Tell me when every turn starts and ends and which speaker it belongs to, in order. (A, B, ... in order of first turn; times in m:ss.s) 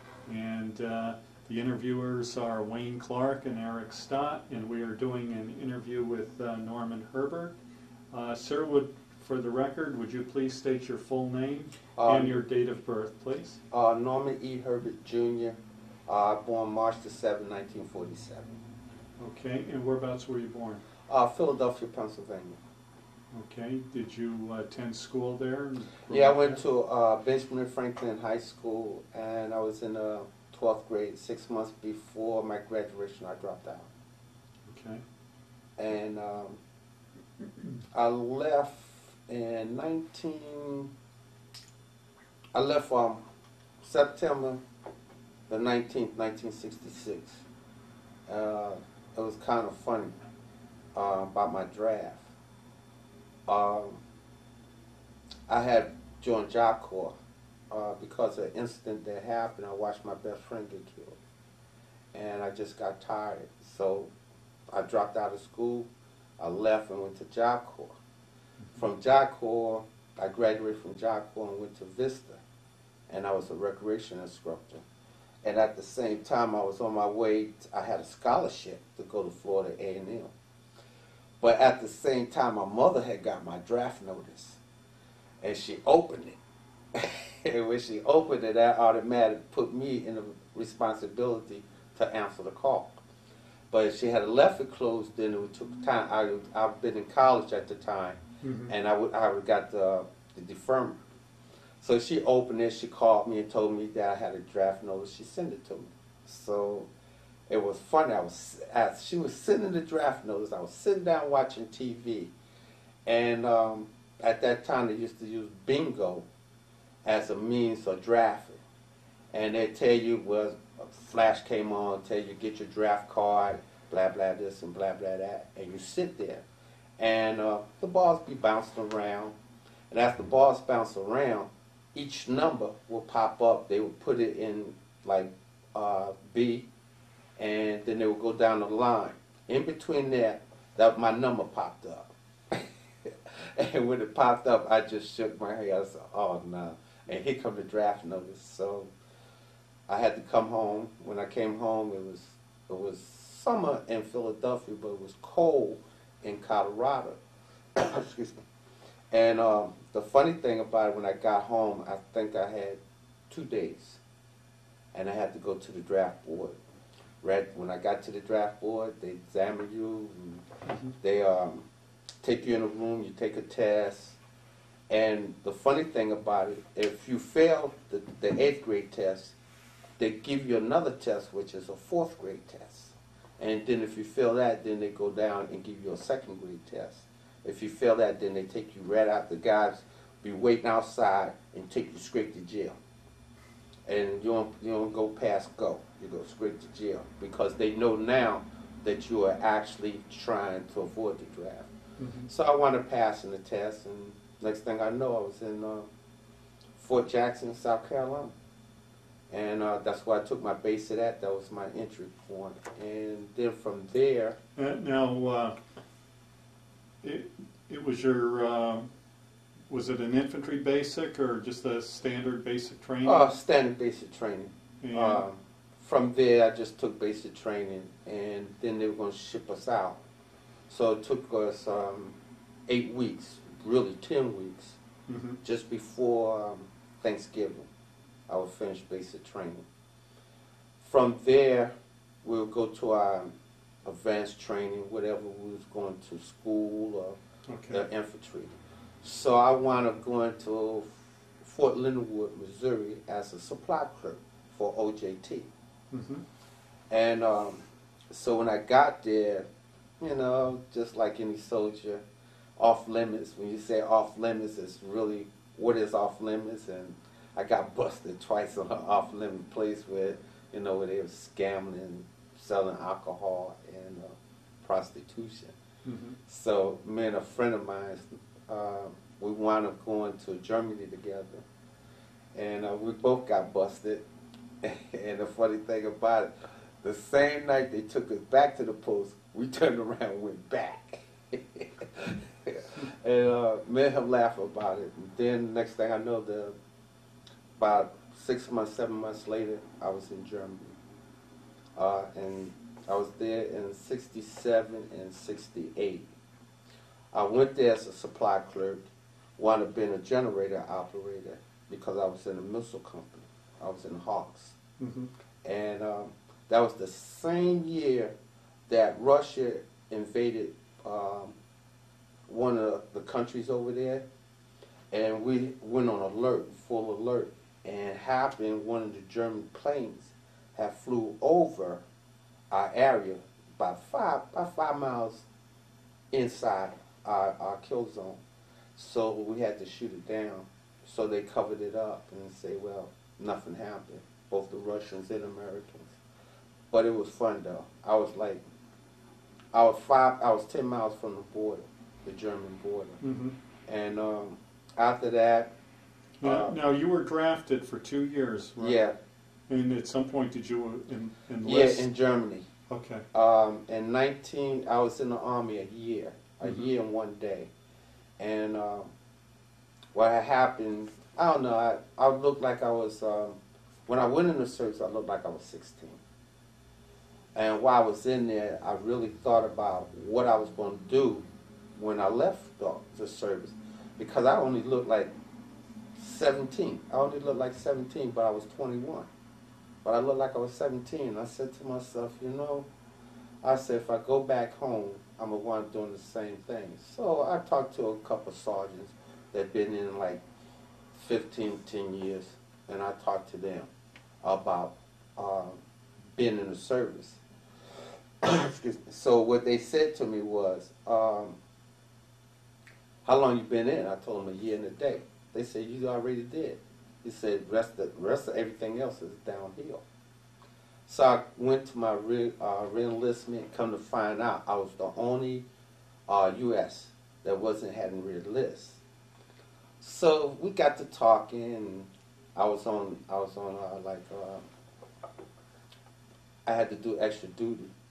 0:00.3-0:07.6 A
0:08.1-0:13.6 A
0:12.0-0:12.4 B
0:13.7-0:18.5 B
0:19.2-0:20.8 A
0:21.1-0:22.6 B
0:23.3-0:26.6 A
0:26.1-0:33.9 B
0:34.7-0:35.0 A
0:35.8-0:36.6 B
0:37.9-0:40.9 B
0:42.5-0:43.2 B
0:43.8-0:44.6 B
0:45.5-0:47.4 B
0:48.3-0:50.1 B
0:50.9-0:52.3 B
0:53.5-0:54.0 B
0:55.5-0:57.1 B
0:57.7-1:01.2 B
1:02.1-1:04.1 B
1:04.7-1:05.9 B
1:06.4-1:08.0 B
1:08.8-1:12.4 B
1:13.1-1:14.8 B
1:15.4-1:20.3 B
1:21.4-1:24.6 B
1:25.4-1:26.4 B
1:27.0-1:33.0 B
1:33.7-1:41.0 B
1:38.4-1:38.7 A
1:41.8-1:46.9 B
1:47.5-1:52.3 B
1:53.1-1:56.3 B
1:57.0-1:58.6 B
1:59.3-2:06.4 B
2:07.0-2:09.4 B
2:09.9-2:16.7 B
2:17.4-2:28.9 B
2:29.9-2:37.2 B
2:37.8-2:38.4 B
2:39.1-2:44.0 B
2:44.9-2:46.6 B
2:47.2-2:51.7 B
2:52.2-2:54.2 B
2:54.9-2:59.4 B
3:00.0-3:12.8 B
3:13.9-3:21.7 B
3:22.0-3:22.3 A
3:22.3-3:25.9 B
3:26.8-3:28.3 B
3:29.3-3:34.4 B
3:34.6-3:35.6 A
3:37.0-3:38.9 A
3:39.7-3:43.3 A
3:43.0-3:50.0 B
3:44.8-3:45.2 A
3:50.7-3:52.2 B
3:52.7-3:54.8 B
3:55.1-3:55.4 A
3:55.4-3:57.7 B
3:58.3-3:59.6 B
4:00.8-4:03.3 B
4:03.8-4:07.2 B
4:07.5-4:07.8 A
4:07.7-4:15.5 B
4:15.9-4:16.2 A
4:16.9-4:19.5 B
4:20.0-4:22.0 B
4:22.6-4:35.6 B
4:35.8-4:36.2 A
4:36.3-4:41.4 B
4:42.4-4:44.0 B
4:44.6-4:46.3 B
4:46.8-4:56.6 B
4:57.6-5:00.8 B
5:01.8-5:06.1 B
5:07.1-5:08.8 B
5:09.4-5:14.6 B
5:14.8-5:15.1 A
5:15.4-5:18.1 B
5:18.7-5:21.4 B
5:22.3-5:24.0 B
5:24.9-5:31.8 B
5:32.5-5:35.3 B
5:36.1-5:38.2 B
5:38.8-5:46.0 B
5:46.7-5:48.4 B
5:49.5-5:53.0 B
5:53.0-5:53.4 A
5:53.7-5:55.5 B
5:56.2-5:58.8 A
5:56.2-5:56.5 B
5:58.6-5:59.0 B
5:59.5-6:01.9 A
6:01.4-6:02.5 B
6:02.7-6:03.0 A
6:03.1-6:07.5 B
6:06.4-6:06.7 A
6:08.2-6:08.9 B
6:10.0-6:16.0 B
6:17.4-6:21.2 B
6:21.8-6:25.1 B
6:26.0-6:29.1 B
6:29.8-6:32.7 B
6:33.4-6:40.2 B
6:40.9-6:43.7 B
6:44.2-6:45.6 B
6:46.2-6:47.2 B
6:48.2-6:51.4 B
6:53.0-6:59.8 B
7:00.9-7:05.4 B
7:06.1-7:08.8 B
7:09.8-7:14.4 B
7:16.5-7:17.7 B